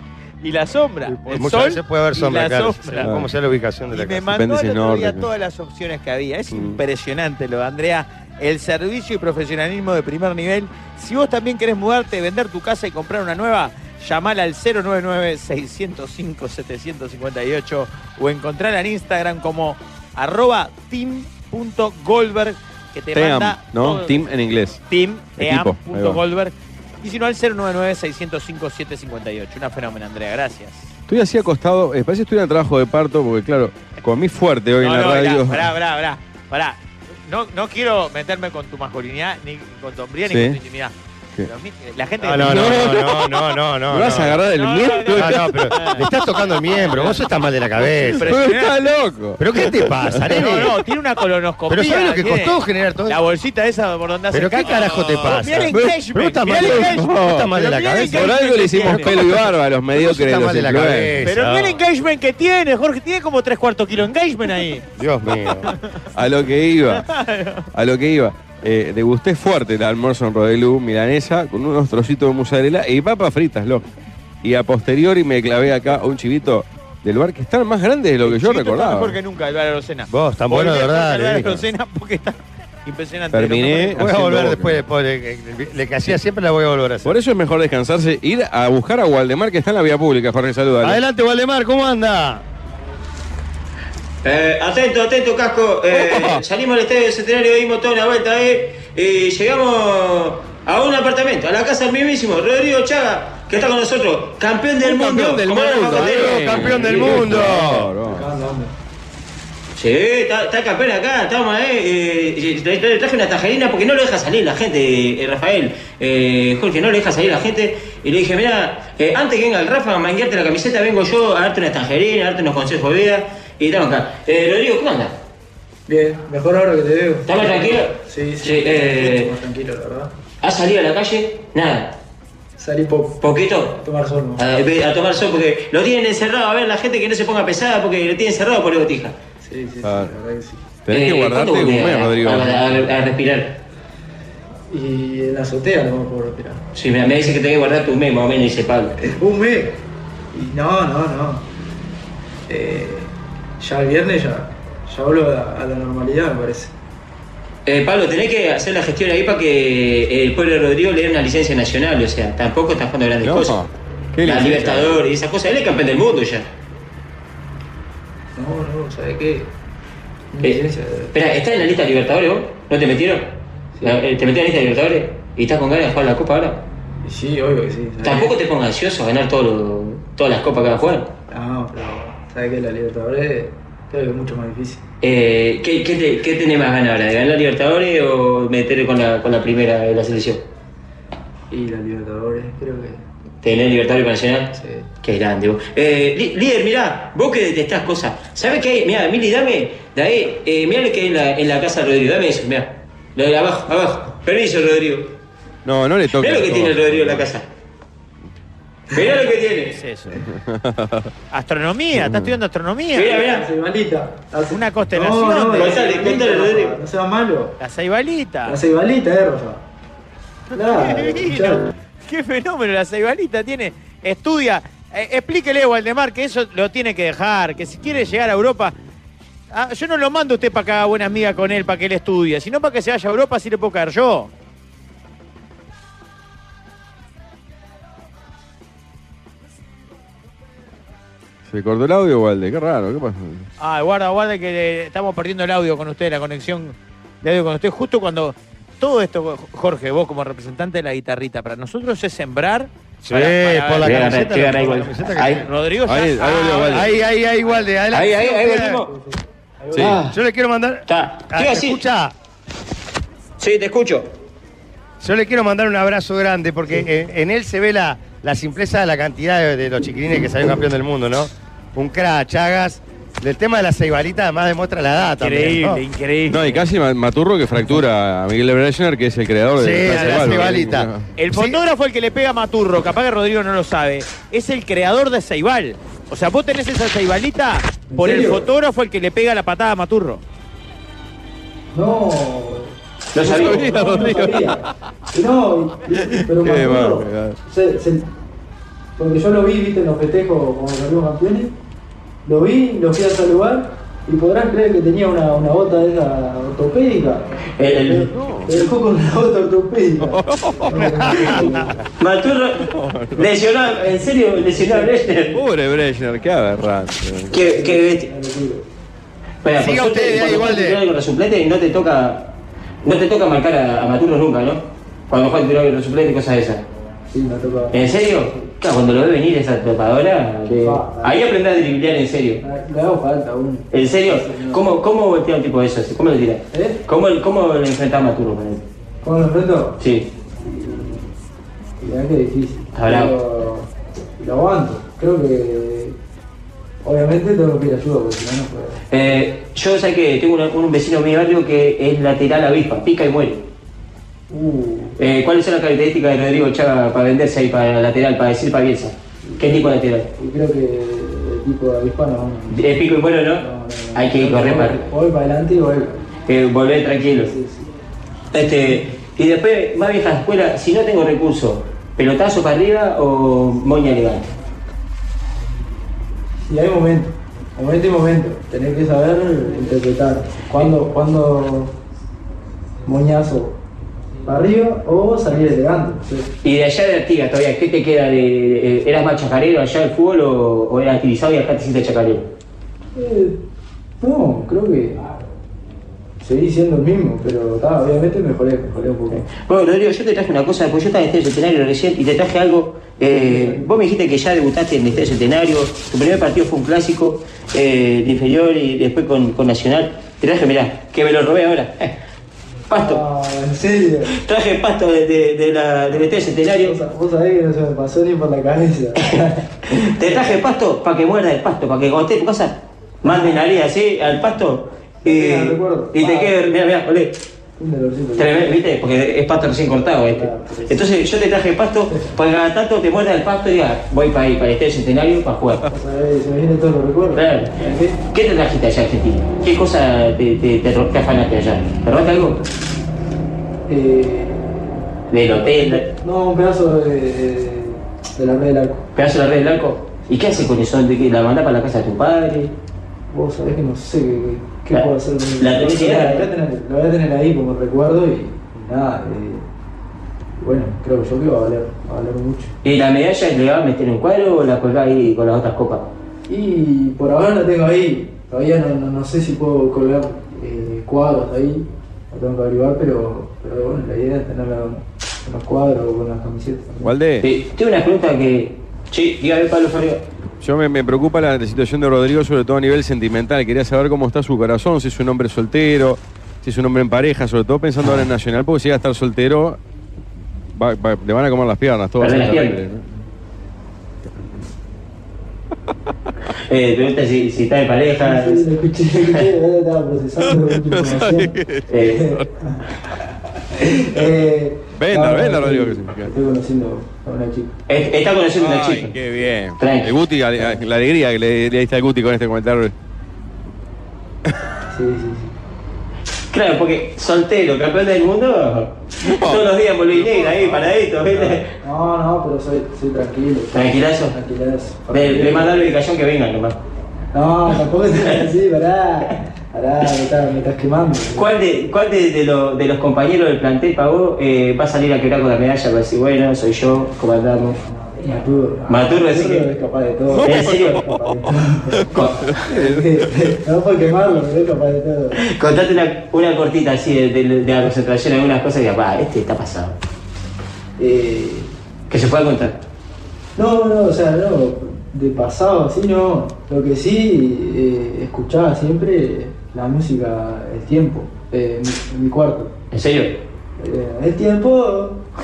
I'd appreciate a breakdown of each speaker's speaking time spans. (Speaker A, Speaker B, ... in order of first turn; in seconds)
Speaker A: 0.4-3.1, 3.9-30.9, 34.8-43.0, 44.4-47.3, 47.8-48.9, 50.3-59.5, 61.2-64.9, 65.5-66.0, 66.8-67.7, 78.2-84.0, 209.7-210.2, 211.3-213.2, 214.5-215.8, 217.6-218.6, 220.5-228.8, 229.5-234.3, 243.6-256.9, 275.2-276.6, 279.8-280.6, 281.2-290.2
Speaker B: 1.2-4.3, 42.2-44.4, 45.1-48.4, 49.4-50.7, 51.7-53.2, 54.3-58.3, 58.9-61.8, 65.0-65.7, 80.1-81.6, 84.0-87.1, 90.8-92.4, 105.8-107.9, 253.1-255.5, 256.7-258.8, 260.0-262.1, 265.0-275.8, 279.5-281.6, 310.8-311.8, 319.6-320.8
Speaker C: 3.0-3.3, 4.3-5.3, 6.5-6.8, 23.1-24.8, 25.4-26.2, 31.1-35.7, 40.2-40.6, 42.4-46.0, 48.0-50.7, 55.7-57.5, 58.1-61.2, 66.1-67.1, 67.7-73.9, 74.4-79.2, 83.3-84.8, 87.0-91.0, 104.8-108.3, 139.8-140.1, 140.8-142.9, 163.2-165.0, 205.6-207.3, 210.1-211.1, 211.9-212.3, 241.5-243.5, 255.8-256.9, 259.7-260.0, 276.3-281.1, 293.2-294.6, 295.9-297.4, 308.1-308.7, 310.0-311.5, 312.6-313.3, 315.3-317.5, 476.8-477.2, 480.4-489.6, 490.5-492.8, 500.2-502.3, 504.8-506.1, 508.4-512.7, 519.0-519.5, 540.1-541.1, 541.8-543.0
Speaker D: 94.2-107.4, 109.7-125.2, 127.2-129.3, 130.4-131.9, 133.2-133.8, 134.3-139.1, 140.9-143.6, 146.7-148.9, 157.7-163.6, 164.2-166.5, 170.4-176.6, 178.0-181.1, 185.0-190.4, 193.4-205.1, 206.2-207.4, 208.9-209.8, 212.9-213.4, 215.5-216.8, 253.8-255.4, 257.9-258.9, 259.8-260.2, 260.9-261.8, 263.4-264.1, 293.1-293.6, 307.6-308.1, 312.0-315.4, 317.3-318.1, 319.4-322.3, 322.8-326.6, 327.7-332.4, 333.7-338.6, 339.8-340.1, 342.7-343.1, 348.9-353.4, 355.0-360.1, 362.5-364.8, 366.3-367.3, 368.3-374.3, 386.4-392.2, 399.1-411.9, 412.7-413.0, 414.1-416.8, 419.0-427.2, 428.1-435.6, 437.1-437.5, 438.1-442.4, 445.1-445.9, 448.9-452.5, 454.7-456.3, 462.6-465.9, 477.2-480.0, 492.0-492.6, 496.5-498.4, 501.7-502.0, 507.7-508.9, 509.6-509.9, 516.3-521.5, 523.5-524.1, 524.9-526.6, 531.1-537.6, 538.7-539.5, 540.2-540.9, 541.9-542.3, 545.1-549.8, 551.9-552.6, 562.7-563.2
Speaker E: 108.0-108.7, 125.9-130.1, 132.6-134.4, 139.4-140.6, 144.7-146.6, 149.0-149.8, 150.3-151.4, 152.5-156.7, 168.3-169.5, 170.3-171.1, 173.8-174.0, 177.0-178.3, 181.3-184.8, 191.5-193.0, 194.5-194.9, 213.1-217.5, 218.4-219.6, 220.5-221.7, 258.7-260.0, 287.9-288.5, 291.7-298.1, 299.0-301.5, 302.2-311.8, 314.4-315.2, 317.4-318.6, 327.1-328.5, 330.5-331.2, 332.4-334.8, 336.5-336.8, 339.0-339.8, 340.4-341.1, 341.8-345.9, 346.8-349.2, 354.3-355.0, 359.2-366.0, 366.9-367.7, 368.4-368.9, 376.4-381.8, 382.8-383.6, 384.2-386.3, 392.9-393.4, 394.0-395.1, 396.2-399.2, 403.0-403.7, 412.7-414.1, 416.0-419.4, 423.0-423.4, 425.0-426.4, 427.6-428.6, 430.0-430.9, 435.7-438.0, 443.7-448.9, 450.1-450.6, 453.1-459.4, 460.4-462.5, 466.3-476.9, 498.0-502.6, 503.5-507.6, 510.4-510.6, 514.7-515.3, 521.1-525.7, 527.1-531.3, 537.8-545.2, 550.8-551.5, 553.4-562.5, 563.6-565.0